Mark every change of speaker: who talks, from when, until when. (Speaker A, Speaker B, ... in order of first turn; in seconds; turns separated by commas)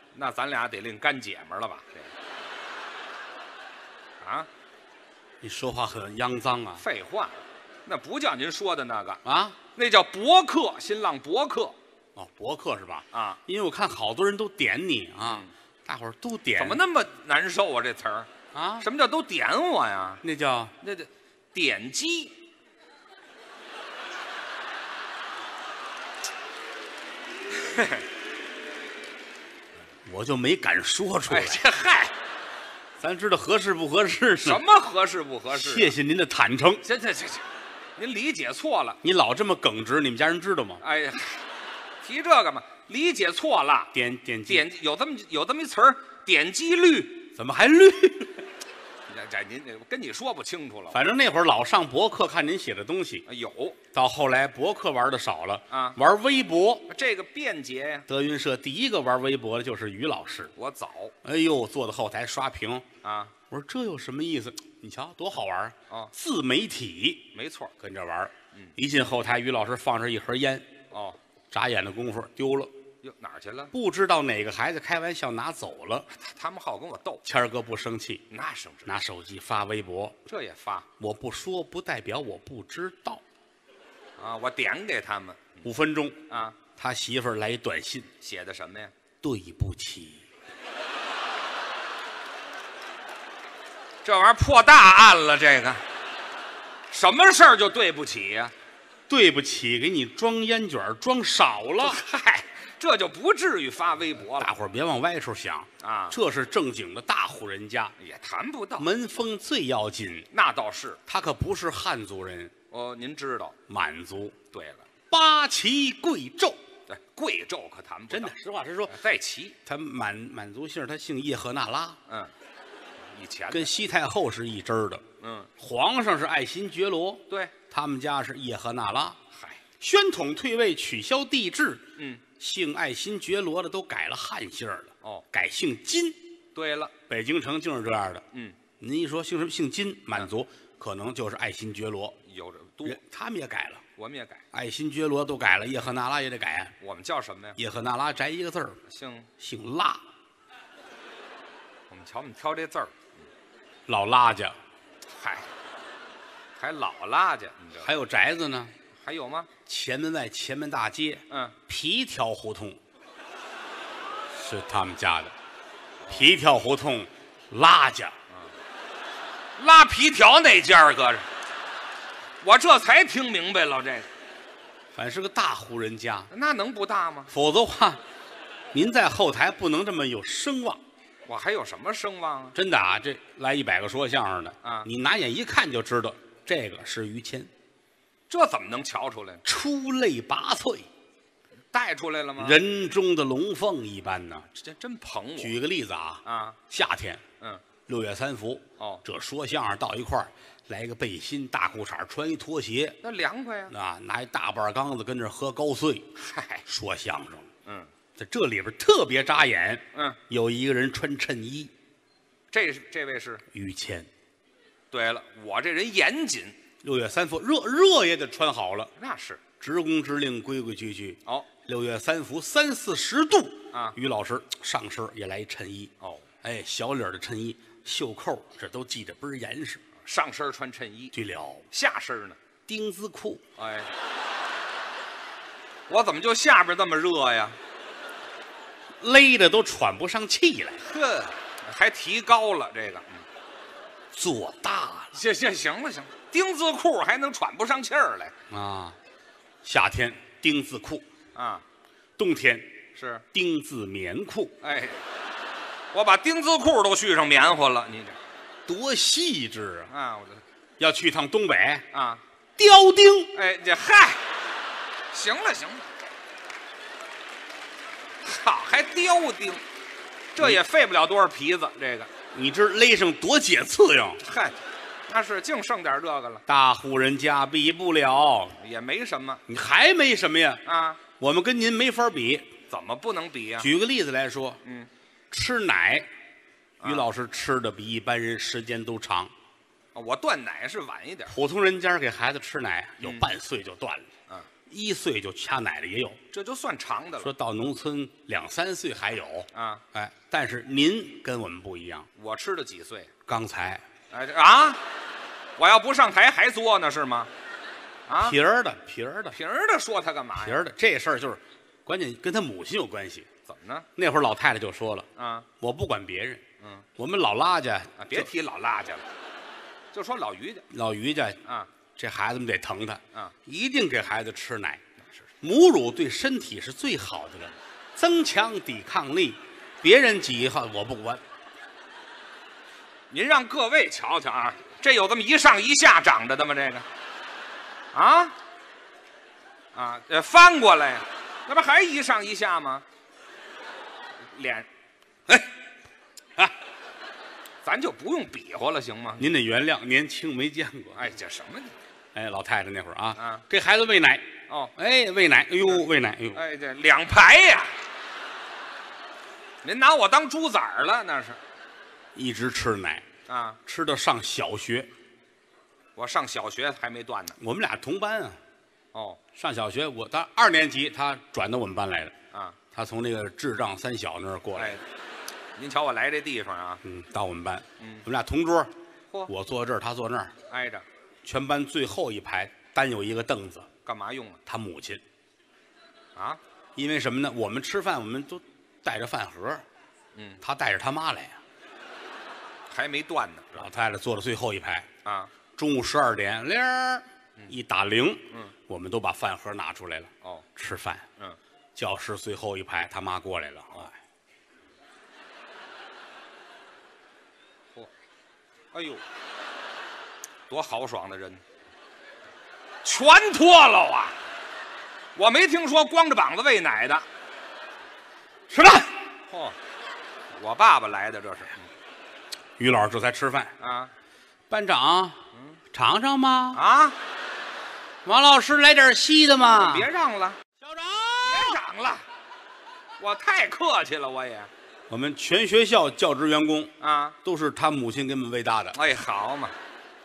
Speaker A: 0.1-2.1, Speaker A: 4.2-4.5, Speaker B: 5.4-6.8, Speaker A: 6.8-9.2, Speaker B: 9.2-9.6, Speaker A: 9.8-11.8, Speaker B: 12.2-16.8, Speaker A: 13.1-13.4, Speaker A: 15.2-15.5, Speaker A: 16.6-20.2, Speaker B: 18.5-18.9, Speaker B: 20.2-20.7, Speaker A: 20.8-22.4, Speaker A: 27.5-28.1, Speaker B: 30.1-31.6, Speaker A: 31.3-32.1, Speaker B: 33.0-34.6, Speaker A: 34.4-35.9, Speaker B: 35.5-36.8, Speaker A: 36.8-37.4, Speaker A: 38.0-39.0, Speaker B: 39.0-40.8, Speaker A: 40.8-41.4, Speaker A: 42.0-43.9, Speaker B: 43.9-44.7, Speaker A: 44.5-47.3, Speaker B: 47.3-48.4, Speaker A: 49.1-51.0, Speaker B: 50.9-53.2, Speaker A: 53.2-53.8, Speaker B: 53.9-56.9, Speaker A: 55.7-56.0, Speaker A: 56.9-58.1, Speaker B: 58.1-60.5, Speaker A: 60.5-61.1, Speaker B: 61.2-62.8, Speaker A: 63.0-63.3, Speaker B: 63.5-70.7, Speaker A: 67.3-67.7, Speaker A: 70.9-71.2, Speaker B: 71.5-72.7, Speaker A: 73.0-73.7, Speaker B: 73.7-76.1, Speaker A: 76.1-77.2, Speaker B: 77.2-78.2, Speaker A: 78.3-78.9, Speaker B: 78.8-80.2, Speaker A: 80.2-80.9, Speaker B: 81.0-83.2, Speaker A: 84.2-85.6, Speaker B: 85.6-86.2, Speaker A: 86.3-86.6, Speaker B: 86.7-88.1, Speaker A: 88.2-88.9, Speaker B: 89.2-90.2, Speaker A: 94.0-95.8, Speaker A: 96.9-98.5, Speaker B: 99.1-102.0, Speaker A: 101.8-104.5, Speaker B: 104.3-107.9, Speaker A: 105.8-106.2, Speaker A: 108.0-108.9, Speaker B: 108.8-110.3, Speaker A: 110.3-111.0, Speaker B: 111.1-112.5, Speaker A: 112.7-113.6, Speaker B: 113.7-114.4, Speaker A: 114.5-114.8, Speaker B: 115.1-116.6, Speaker A: 116.9-118.3, Speaker B: 118.1-119.0, Speaker A: 118.9-119.6, Speaker B: 119.7-122.0, Speaker A: 123.0-123.7, Speaker B: 123.5-125.0, Speaker A: 125.2-125.5, Speaker B: 125.6-129.2, Speaker A: 127.3-127.5, Speaker A: 129.3-129.6, Speaker B: 129.8-136.2, Speaker A: 132.0-132.2, Speaker A: 136.5-136.9, Speaker B: 137.1-138.2, Speaker A: 138.3-138.6, Speaker B: 138.8-142.2, Speaker A: 142.2-143.0, Speaker B: 142.8-143.8, Speaker A: 144.0-144.4, Speaker B: 144.5-146.7, Speaker A: 146.8-147.6, Speaker B: 147.6-148.8, Speaker A: 148.9-149.3, Speaker B: 149.4-150.0, Speaker A: 151.9-153.1, Speaker B: 153.9-154.6, Speaker A: 155.0-155.5, Speaker A: 156.6-157.9, Speaker B: 157.8-158.7, Speaker A: 158.9-159.5, Speaker B: 159.7-162.8, Speaker A: 161.3-161.6, Speaker B: 164.3-165.3, Speaker A: 166.0-166.3, Speaker B: 166.1-168.2, Speaker A: 169.6-171.3, Speaker A: 172.4-174.1, Speaker B: 174.9-176.3, Speaker A: 176.3-177.3, Speaker B: 177.3-178.0, Speaker B: 178.7-180.8, Speaker A: 181.2-182.6, Speaker B: 182.5-187.5, Speaker A: 188.3-189.4, Speaker B: 189.4-190.9, Speaker A: 191.7-192.6, Speaker B: 192.4-194.4, Speaker A: 194.5-195.6, Speaker B: 195.4-197.2, Speaker A: 196.2-196.6, Speaker B: 197.9-203.0, Speaker A: 203.0-203.7, Speaker B: 203.7-206.1, Speaker A: 206.2-206.6, Speaker B: 206.7-207.5, Speaker A: 207.6-207.9, Speaker B: 208.2-211.7, Speaker A: 209.9-210.2, Speaker A: 212.5-213.4, Speaker B: 213.5-214.1, Speaker A: 214.9-216.6, Speaker B: 216.8-218.9, Speaker A: 219.0-219.4, Speaker B: 219.6-229.8, Speaker A: 223.7-224.0, Speaker A: 226.0-226.2, Speaker A: 230.0-231.1, Speaker B: 231.1-231.7, Speaker A: 231.7-232.4, Speaker B: 232.7-233.4, Speaker A: 233.6-233.9, Speaker A: 235.9-237.6, Speaker B: 239.0-240.8, Speaker A: 240.8-243.2, Speaker B: 244.1-245.1, Speaker A: 245.1-248.3, Speaker B: 248.5-249.0, Speaker B: 249.6-251.0, Speaker A: 251.3-251.6, Speaker B: 252.2-252.7, Speaker A: 252.9-253.2, Speaker B: 253.3-254.5, Speaker A: 254.6-255.0, Speaker A: 255.9-258.2, Speaker B: 258.7-259.9, Speaker A: 259.9-260.4, Speaker B: 260.8-261.8, Speaker A: 261.9-262.2, Speaker B: 262.6-263.4, Speaker A: 263.3-264.3, Speaker A: 265.1-265.9, Speaker A: 268.2-269.6, Speaker A: 270.3-272.1, Speaker B: 272.3-274.2, Speaker A: 274.2-276.4, Speaker B: 276.5-278.6, Speaker A: 278.6-279.4, Speaker B: 279.5-280.6, Speaker A: 280.6-281.0, Speaker B: 281.2-282.5, Speaker A: 282.7-283.7, Speaker B: 283.6-284.6, Speaker B: 285.3-286.1, Speaker A: 286.8-287.1, Speaker B: 286.8-289.3, Speaker A: 289.9-291.3, Speaker B: 291.3-294.1, Speaker A: 293.0-293.3, Speaker B: 294.7-296.2, Speaker A: 296.3-297.3, Speaker B: 297.2-302.1, Speaker A: 299.5-299.8, Speaker A: 302.1-303.1, Speaker B: 303.2-303.8, Speaker A: 304.1-304.8, Speaker A: 305.6-307.3, Speaker A: 308.1-308.4, Speaker B: 308.2-309.4, Speaker A: 309.3-310.6, Speaker B: 310.4-313.3, Speaker A: 313.4-313.9, Speaker B: 313.9-315.1, Speaker A: 315.1-315.5, Speaker B: 315.6-316.4, Speaker A: 316.6-316.9, Speaker B: 316.9-318.3, Speaker A: 318.0-319.1, Speaker A: 319.9-320.6, Speaker B: 320.7-321.4, Speaker A: 321.4-321.7, Speaker B: 321.9-324.8, Speaker A: 325.0-325.3, Speaker B: 325.4-331.2, Speaker A: 333.1-336.9, Speaker A: 337.9-338.3, Speaker A: 339.7-342.8, Speaker A: 344.3-344.7, Speaker A: 347.6-349.4, Speaker B: 349.2-351.0, Speaker A: 350.9-351.7, Speaker B: 352.1-356.4, Speaker A: 353.2-353.4, Speaker A: 356.3-357.8, Speaker A: 359.6-361.4, Speaker B: 362.1-363.0, Speaker A: 363.3-363.6, Speaker B: 363.6-364.9, Speaker A: 365.9-367.4, Speaker B: 367.4-368.4, Speaker A: 368.9-369.2, Speaker B: 369.3-372.1, Speaker A: 372.3-372.6, Speaker B: 372.7-374.8, Speaker A: 374.6-374.8, Speaker A: 375.6-376.8, Speaker B: 376.8-378.7, Speaker A: 377.8-378.0, Speaker B: 379.3-380.3, Speaker A: 380.5-380.8, Speaker B: 381.2-383.7, Speaker A: 383.8-384.4, Speaker B: 384.4-385.0, Speaker A: 386.1-386.4, Speaker B: 386.8-389.6, Speaker A: 390.1-390.4, Speaker B: 390.4-391.4, Speaker A: 392.7-393.7, Speaker B: 393.5-394.9, Speaker A: 395.0-395.3, Speaker B: 395.6-401.1, Speaker B: 401.8-403.9, Speaker A: 408.7-409.0, Speaker A: 410.5-411.4, Speaker A: 412.8-414.1, Speaker A: 415.1-417.0, Speaker B: 418.5-419.0, Speaker A: 419.3-419.6, Speaker A: 420.3-421.7, Speaker B: 422.6-423.5, Speaker A: 423.6-423.9, Speaker B: 424.5-425.2, Speaker B: 425.7-426.6, Speaker A: 426.5-427.0, Speaker B: 428.0-429.9, Speaker A: 429.4-430.4, Speaker B: 430.6-431.6, Speaker A: 431.2-432.0, Speaker A: 433.0-434.5, Speaker B: 434.9-436.7, Speaker A: 436.8-437.2, Speaker B: 437.2-438.8, Speaker A: 438.7-439.5